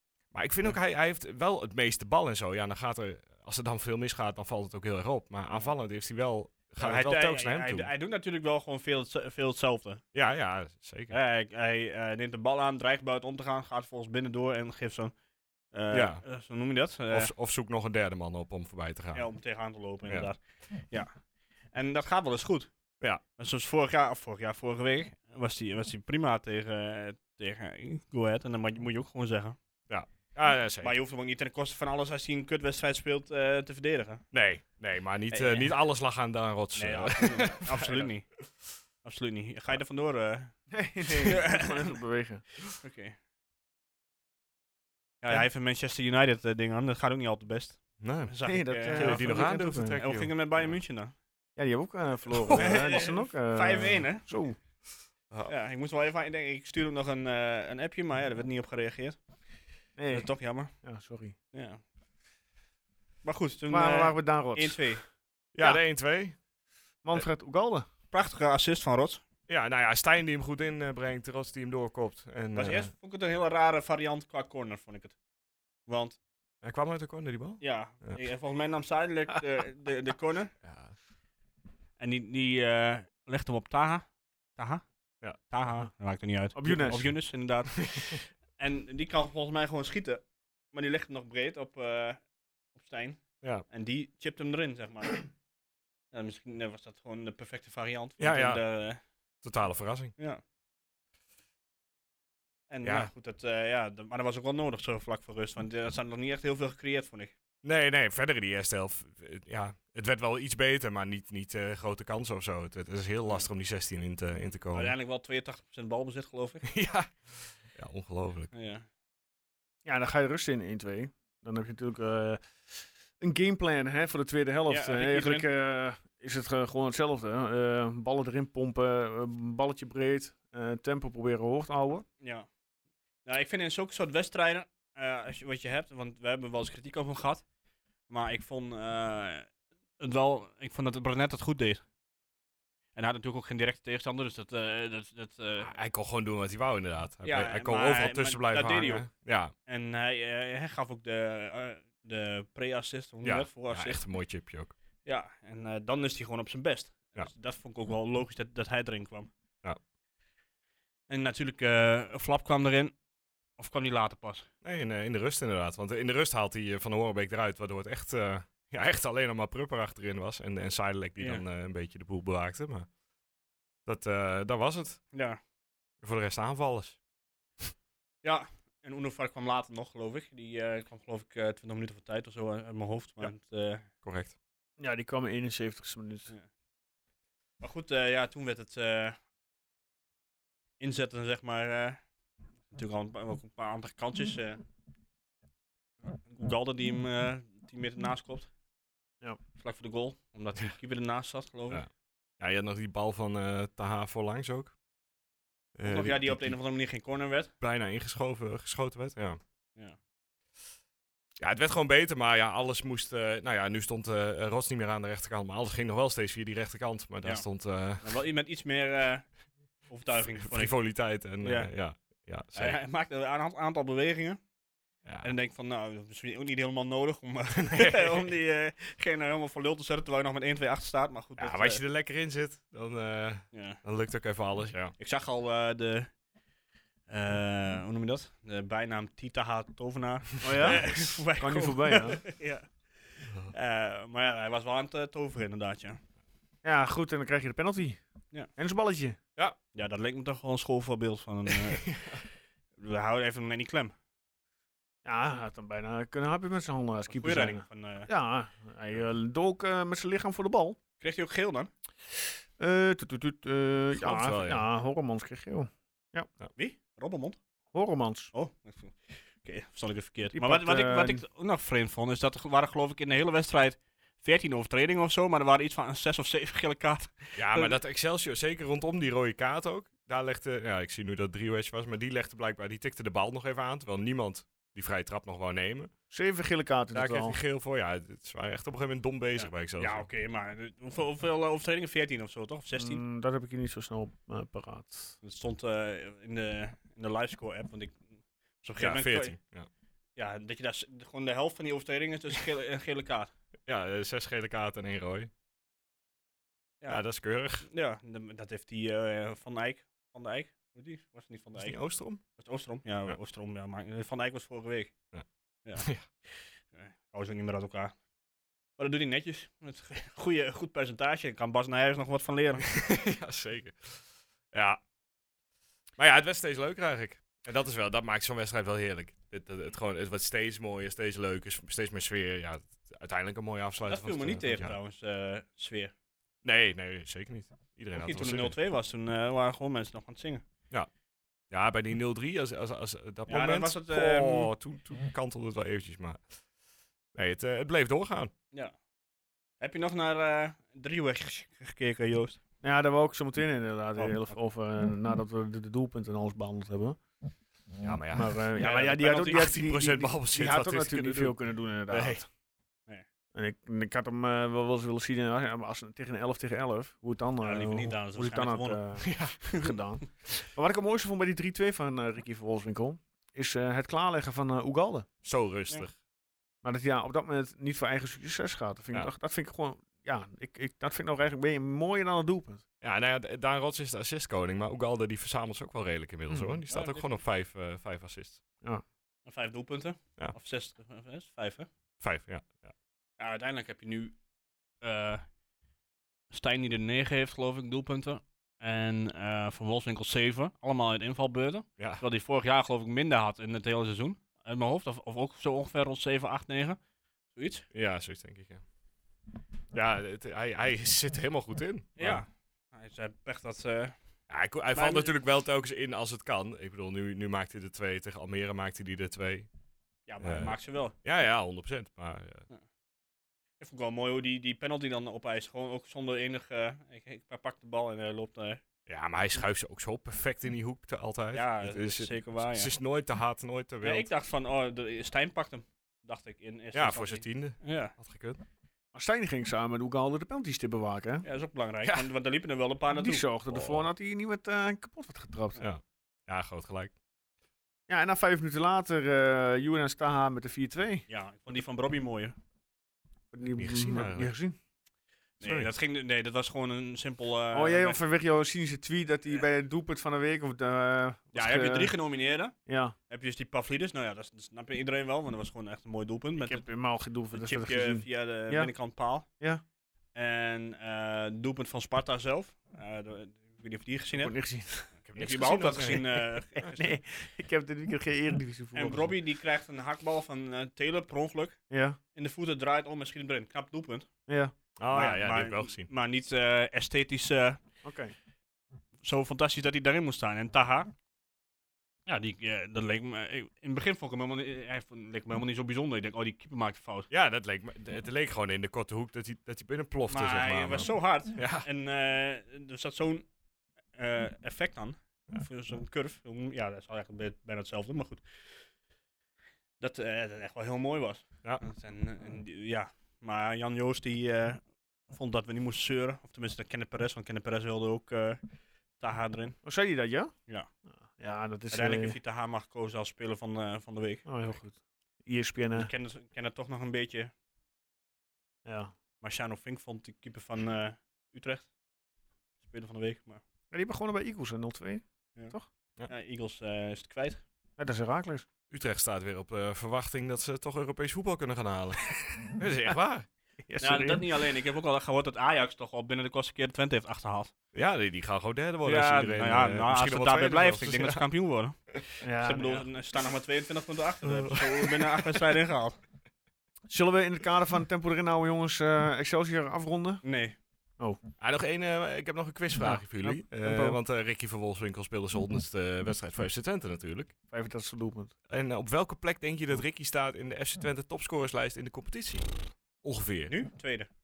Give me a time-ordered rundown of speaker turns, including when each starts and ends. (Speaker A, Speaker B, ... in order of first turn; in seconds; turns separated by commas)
Speaker A: 0.3-7.9, Speaker B: 6.8-10.0, Speaker A: 10.1-11.2, Speaker B: 11.1-15.1, Speaker B: 15.7-17.3, Speaker A: 15.9-16.2, Speaker A: 17.1-19.3, Speaker B: 19.1-21.1, Speaker B: 21.7-22.7, Speaker B: 23.4-29.6, Speaker A: 29.9-30.9, Speaker B: 30.8-34.2, Speaker A: 34.3-38.1, Speaker B: 35.3-35.7, Speaker B: 36.8-38.3, Speaker B: 39.0-41.9, Speaker C: 40.7-42.5, Speaker B: 42.8-43.1, Speaker B: 45.2-51.1, Speaker A: 48.0-48.4, Speaker C: 48.5-50.0, Speaker A: 48.9-50.8, Speaker C: 51.6-54.6, Speaker A: 52.3-52.8, Speaker B: 52.6-54.3, Speaker B: 55.5-59.2, Speaker C: 60.0-60.3, Speaker B: 60.1-60.7, Speaker C: 60.8-61.4, Speaker B: 61.5-61.8, Speaker B: 63.2-65.0, Speaker C: 63.7-64.8, Speaker A: 65.5-66.4, Speaker C: 67.0-67.9, Speaker B: 68.1-69.2, Speaker A: 69.5-72.9, Speaker B: 72.5-75.2, Speaker B: 75.9-76.2, Speaker A: 76.6-78.2, Speaker B: 77.6-80.5, Speaker A: 80.6-80.9, Speaker B: 82.0-84.8, Speaker B: 85.5-92.2, Speaker C: 86.5-87.1, Speaker A: 87.8-88.2, Speaker B: 92.8-95.3, Speaker B: 96.1-99.0, Speaker A: 98.2-98.6, Speaker A: 99.4-100.1, Speaker B: 102.7-107.3, Speaker A: 102.8-103.1, Speaker A: 107.6-115.0, Speaker B: 114.7-116.7, Speaker A: 116.7-118.5, Speaker B: 118.5-118.8, Speaker C: 119.8-122.4, Speaker C: 123.2-132.1, Speaker B: 124.7-125.5, Speaker B: 132.2-132.5, Speaker B: 133.2-137.4, Speaker B: 138.1-141.8, Speaker B: 142.9-145.7, Speaker A: 145.6-149.5, Speaker B: 147.2-149.1, Speaker B: 149.7-154.0, Speaker A: 153.2-154.7, Speaker B: 155.1-159.3, Speaker B: 161.1-162.9, Speaker B: 163.6-164.5, Speaker A: 164.6-172.9, Speaker B: 171.2-171.4, Speaker A: 173.9-175.0, Speaker B: 175.1-175.4, Speaker A: 176.0-177.0, Speaker B: 178.2-183.9, Speaker A: 184.0-184.3, Speaker C: 184.8-186.3, Speaker B: 187.6-189.2, Speaker B: 190.8-192.0, Speaker B: 192.7-194.6, Speaker B: 196.2-198.5, Speaker B: 199.6-201.8, Speaker A: 202.4-204.7, Speaker A: 205.8-206.6, Speaker B: 205.8-207.5, Speaker A: 207.6-209.4, Speaker A: 211.4-218.1, Speaker B: 218.0-219.3, Speaker B: 219.9-220.8, Speaker A: 220.3-222.8, Speaker B: 221.4-221.7, Speaker B: 222.6-224.4, Speaker B: 225.2-231.8, Speaker A: 227.6-228.3, Speaker A: 231.4-234.9, Speaker B: 233.5-233.8, Speaker B: 235.0-236.1, Speaker B: 237.1-242.7, Speaker C: 240.4-242.2, Speaker B: 243.5-246.0, Speaker C: 246.6-248.0, Speaker C: 248.6-249.2, Speaker B: 249.7-252.0, Speaker A: 251.5-252.2, Speaker B: 252.8-253.9, Speaker C: 255.1-260.8, Speaker B: 257.1-258.1, Speaker B: 261.0-261.7, Speaker C: 262.6-266.3, Speaker A: 263.9-264.6, Speaker B: 266.6-267.4, Speaker C: 267.7-268.3, Speaker B: 268.3-277.8, Speaker C: 270.3-271.2, Speaker A: 277.4-285.9, Speaker C: 286.1-287.4, Speaker A: 286.9-290.1, Speaker B: 289.4-293.0, Speaker C: 292.8-295.1, Speaker B: 295.2-298.1, Speaker B: 298.6-299.4, Speaker A: 298.8-299.7, Speaker B: 300.2-303.3, Speaker A: 303.7-305.3, Speaker A: 306.9-307.6, Speaker B: 307.6-314.9, Speaker A: 311.6-312.2, Speaker A: 315.8-316.1, Speaker B: 316.7-317.9, Speaker B: 318.8-322.7, Speaker A: 322.7-324.8, Speaker A: 326.0-334.8, Speaker B: 333.9-335.9, Speaker A: 336.4-338.6, Speaker B: 337.9-340.4, Speaker A: 341.5-346.3, Speaker B: 343.3-344.5, Speaker A: 347.1-348.3, Speaker B: 349.6-352.4, Speaker C: 352.6-357.0, Speaker B: 354.0-354.4, Speaker A: 357.8-358.5, Speaker C: 358.1-362.3, Speaker B: 358.6-359.5, Speaker A: 359.2-362.2, Speaker C: 363.3-375.1, Speaker B: 367.4-368.8, Speaker A: 369.0-369.4, Speaker B: 369.5-369.7, Speaker A: 375.2-375.9, Speaker C: 376.6-382.6, Speaker A: 382.8-388.4, Speaker B: 386.7-387.1, Speaker B: 389.3-391.7, Speaker A: 392.0-392.7, Speaker B: 393.2-394.1, Speaker B: 394.8-395.2, Speaker B: 396.3-406.8, Speaker B: 407.3-407.7, Speaker A: 407.7-408.6, Speaker A: 409.7-412.2, Speaker B: 412.0-413.9, Speaker A: 414.3-419.5, Speaker B: 414.8-415.1, Speaker B: 420.1-420.9, Speaker A: 420.2-422.4, Speaker B: 423.6-428.6, Speaker A: 428.9-434.1, Speaker B: 431.3-432.7, Speaker B: 433.8-437.9, Speaker A: 436.7-438.4, Speaker C: 438.9-441.2, Speaker B: 441.2-443.2, Speaker A: 441.8-442.1, Speaker C: 442.9-445.6, Speaker A: 443.5-443.9, Speaker A: 445.6-446.9, Speaker C: 447.9-451.1, Speaker B: 451.1-452.4, Speaker C: 453.3-454.6, Speaker A: 453.6-454.3, Speaker B: 455.4-458.0, Speaker A: 455.4-455.7, Speaker C: 457.5-461.9, Speaker B: 461.3-462.6, Speaker C: 462.7-462.9, Speaker B: 463.1-466.7, Speaker C: 466.4-468.7, Speaker B: 467.3-469.3, Speaker B: 470.1-474.3, Speaker C: 474.2-474.9, Speaker A: 475.1-476.8, Speaker B: 475.1-476.6, Speaker C: 476.6-479.1, Speaker B: 478.8-481.6, Speaker C: 481.7-482.0, Speaker B: 482.1-484.1, Speaker C: 484.3-484.5, Speaker A: 484.8-485.9, Speaker B: 484.9-487.6, Speaker C: 487.8-488.1, Speaker B: 489.0-490.9, Speaker B: 492.1-497.1, Speaker A: 497.1-501.7, Speaker B: 500.1-503.3, Speaker B: 503.9-508.2, Speaker B: 509.8-518.4, Speaker B: 519.0-519.6, Speaker C: 519.6-520.3, Speaker C: 520.9-522.2, Speaker B: 521.7-524.3, Speaker C: 524.3-525.9, Speaker B: 525.7-527.3, Speaker C: 528.6-528.9, Speaker B: 529.2-531.7, Speaker B: 532.6-533.4, Speaker C: 533.7-535.7, Speaker B: 536.1-537.4, Speaker C: 537.8-538.5, Speaker A: 538.7-543.3, Speaker C: 543.7-544.4, Speaker B: 543.8-547.5, Speaker A: 547.7-551.2, Speaker B: 548.8-556.0, Speaker C: 552.2-552.9, Speaker A: 554.2-555.4, Speaker C: 556.9-560.2, Speaker B: 560.2-560.6, Speaker A: 561.4-567.3, Speaker C: 562.8-564.0, Speaker C: 567.5-568.3, Speaker A: 568.5-572.5, Speaker A: 573.0-573.5, Speaker B: 573.5-574.1